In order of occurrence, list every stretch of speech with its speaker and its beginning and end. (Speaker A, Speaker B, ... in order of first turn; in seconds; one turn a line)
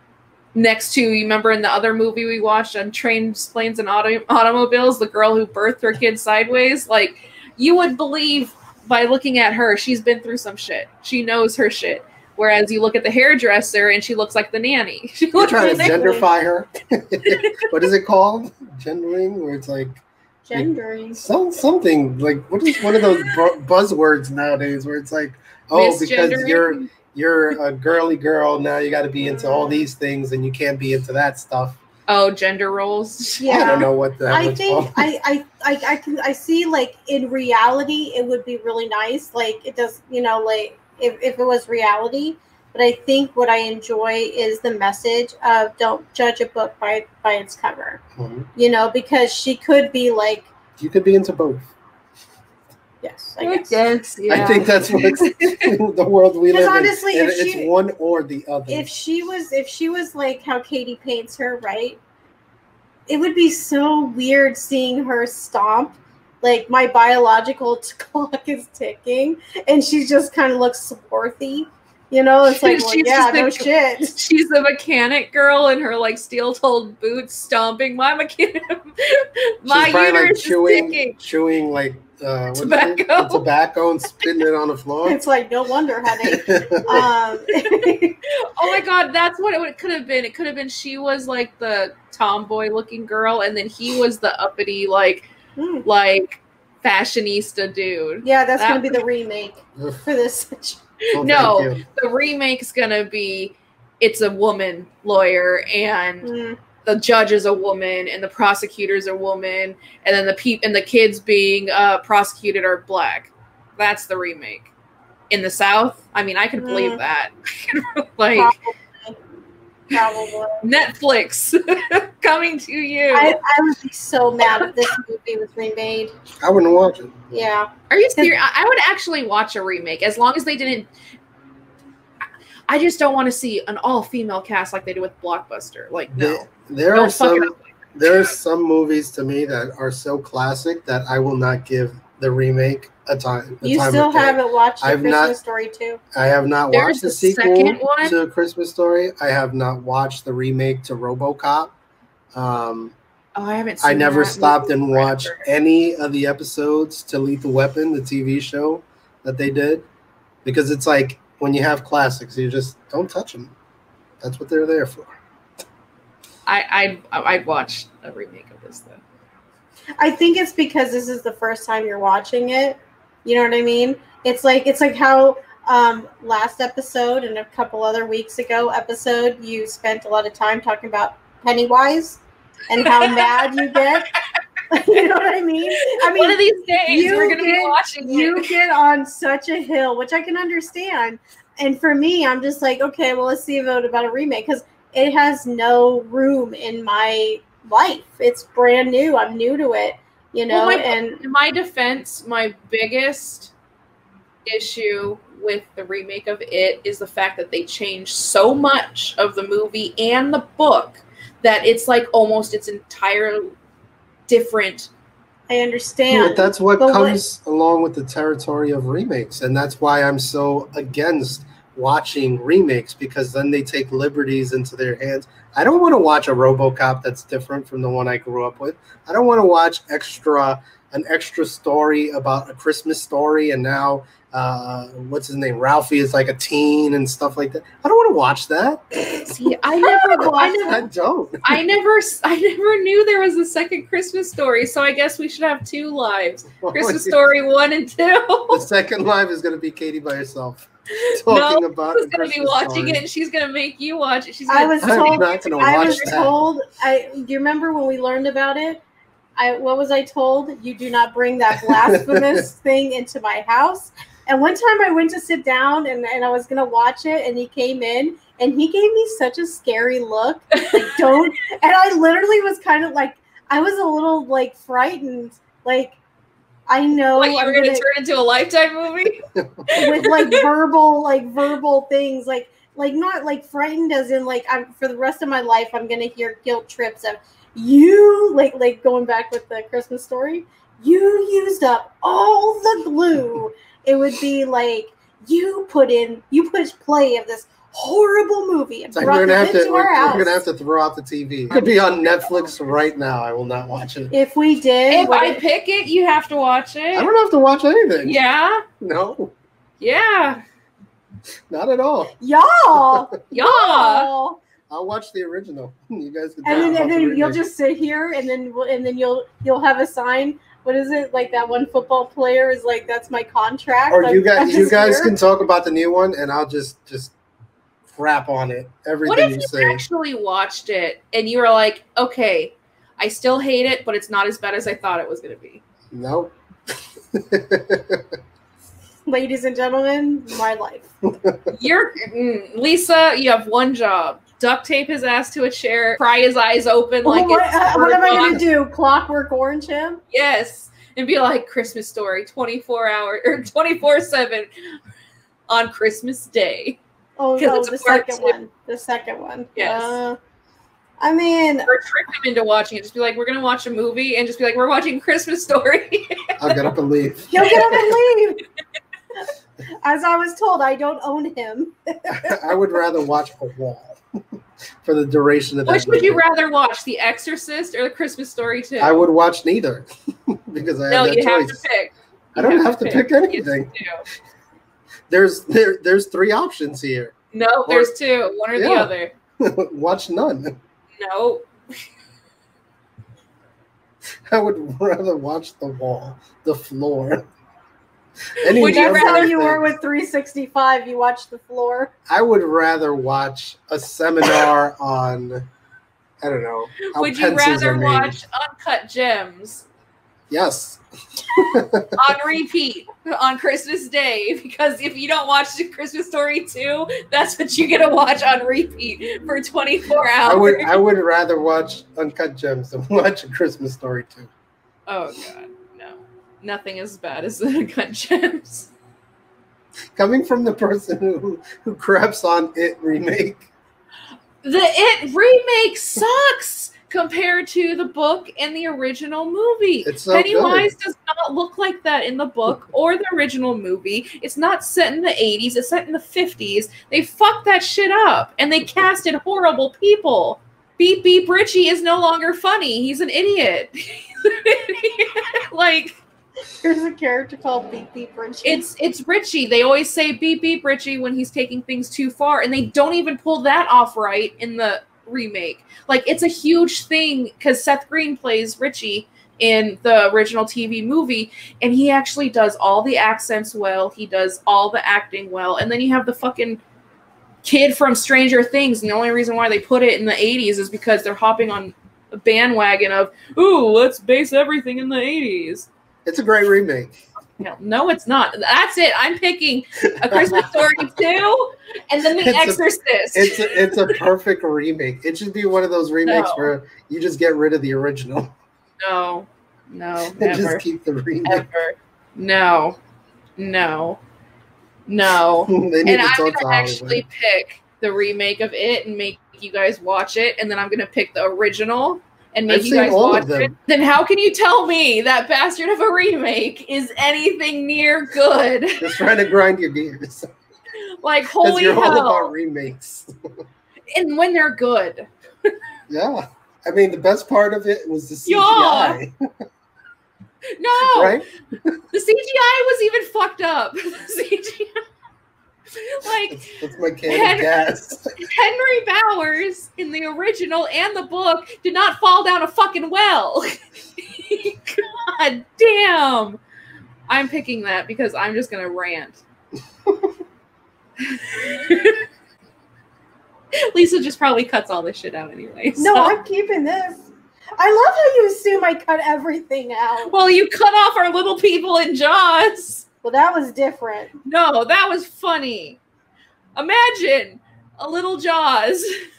Speaker A: 0.5-16.1
Speaker B: 15.3-31.8
Speaker C: 15.7-16.2
Speaker A: 17.3-17.6
Speaker C: 20.4-21.2
Speaker A: 25.7-26.9
Speaker C: 29.4-29.7
Speaker A: 32.1-33.9
Speaker C: 33.4-48.0
Speaker B: 33.5-35.1
Speaker B: 48.2-48.5
Speaker C: 48.5-50.5
Speaker B: 50.8-51.7
Speaker C: 53.0-53.8
Speaker A: 53.4-55.7
Speaker B: 54.3-58.9
Speaker C: 56.5-57.7
Speaker C: 58.7-62.0
Speaker C: 63.1-74.1
Speaker A: 72.5-81.2
Speaker B: 79.7-85.2
Speaker A: 82.5-83.4
Speaker C: 85.0-88.2
Speaker B: 86.2-87.1
Speaker A: 87.6-87.9
Speaker A: 88.4-95.3
Speaker C: 95.6-95.8
Speaker A: 95.8-99.0
Speaker C: 98.2-100.8
Speaker A: 101.1-106.3
Speaker B: 101.1-101.8
Speaker C: 106.2-106.6
Speaker A: 106.8-114.7
Speaker A: 115.3-118.5
Speaker C: 116.6-117.0
Speaker C: 118.3-119.2
Speaker C: 119.9-120.7
Speaker A: 120.6-123.4
Speaker C: 123.1-126.1
Speaker A: 124.4-124.8
Speaker B: 126.4-127.1
Speaker C: 127.3-128.3
Speaker A: 127.9-130.9
Speaker A: 132.7-137.6
Speaker B: 136.1-145.3
Speaker C: 143.6-146.0
Speaker B: 146.1-151.7
Speaker A: 146.7-148.1
Speaker B: 152.3-152.9
Speaker A: 153.3-155.5
Speaker B: 153.8-159.8
Speaker B: 160.4-163.5
Speaker B: 164.2-165.2
Speaker A: 166.4-169.0
Speaker C: 170.0-184.1
Speaker A: 182.8-183.8
Speaker C: 184.7-201.2
Speaker A: 185.8-188.5
Speaker A: 200.5-203.5
Speaker A: 204.4-213.5
Speaker A: 214.3-214.9
Speaker C: 215.5-217.2
Speaker B: 216.1-241.6
Speaker A: 239.2-240.9
Speaker A: 241.4-248.7
Speaker B: 246.6-247.2
Speaker B: 248.5-253.0
Speaker A: 250.9-256.2
Speaker C: 254.5-258.8
Speaker B: 254.8-256.4
Speaker C: 259.4-276.0
Speaker B: 261.6-262.4
Speaker A: 270.6-271.2
Speaker C: 276.7-277.9
Speaker A: 277.1-280.4
Speaker C: 279.7-300.4
Speaker B: 298.9-304.1
Speaker C: 304.1-305.4
Speaker A: 304.9-307.1
Speaker B: 306.9-308.2
Speaker A: 308.0-308.6
Speaker B: 308.8-309.3
Speaker A: 309.8-310.4
Speaker B: 311.5-312.1
Speaker C: 312.2-314.4
Speaker B: 312.7-313.2
Speaker A: 313.3-314.1
Speaker B: 314.7-317.4
Speaker C: 316.4-325.1
Speaker B: 323.9-327.1
Speaker B: 327.9-329.8
Speaker A: 329.0-335.6
Speaker B: 335.9-336.3
Speaker B: 337.1-338.0
Speaker C: 339.1-340.9
Speaker B: 341.0-341.5
Speaker A: 341.5-348.4
Speaker C: 347.0-350.0
Speaker A: 350.1-354.5
Speaker A: 355.5-356.8
Speaker C: 357.2-360.2
Speaker A: 357.4-358.3
Speaker A: 359.6-359.9
Speaker C: 361.0-361.7
Speaker A: 361.7-366.6
Speaker B: 366.4-367.9
Speaker C: 367.3-368.4
Speaker C: 369.8-372.4
Speaker B: 372.1-374.0
Speaker B: 374.8-376.2
Speaker A: 375.6-379.0
Speaker B: 378.8-381.6
Speaker A: 380.9-384.0
Speaker B: 382.4-383.7
Speaker B: 385.1-387.1
Speaker A: 387.3-389.1
Speaker B: 387.7-387.9
Speaker B: 388.5-390.6
Speaker A: 391.0-391.4
Speaker B: 394.3-397.3
Speaker B: 398.3-399.7
Speaker A: 398.4-399.4
Speaker C: 398.6-401.9
Speaker B: 402.1-405.5
Speaker B: 406.2-408.2
Speaker A: 406.8-409.6
Speaker B: 410.3-412.0
Speaker A: 411.9-420.8
Speaker B: 420.2-424.3
Speaker A: 424.9-428.7
Speaker B: 429.9-433.5
Speaker A: 434.4-456.0
Speaker B: 439.8-440.7
Speaker C: 456.6-458.6
Speaker A: 458.4-476.6
Speaker A: 477.4-485.7
Speaker B: 486.0-487.0
Speaker A: 487.4-494.0
Speaker B: 490.0-490.5
Speaker B: 492.2-498.3
Speaker A: 496.1-496.5
Speaker A: 498.8-500.6
Speaker B: 500.1-501.5
Speaker A: 501.2-502.8
Speaker A: 503.4-504.0
Speaker A: 504.9-519.0
Speaker B: 505.5-507.0
Speaker B: 512.5-513.5
Speaker B: 518.8-520.3
Speaker A: 521.0-522.3
Speaker B: 521.4-523.1
Speaker A: 523.9-525.5
Speaker B: 525.9-529.4
Speaker A: 528.2-529.0
Speaker A: 530.6-531.2
Speaker B: 530.8-531.8
Speaker A: 531.9-534.8
Speaker A: 535.7-536.5
Speaker B: 536.3-538.1
Speaker A: 537.1-537.5
Speaker A: 538.2-546.4
Speaker A: 547.1-549.2
Speaker A: 551.0-552.0
Speaker A: 553.5-556.1
Speaker C: 555.8-557.1
Speaker C: 557.6-560.1
Speaker A: 560.1-562.9
Speaker C: 563.0-564.1
Speaker A: 564.2-565.8
Speaker A: 566.5-568.9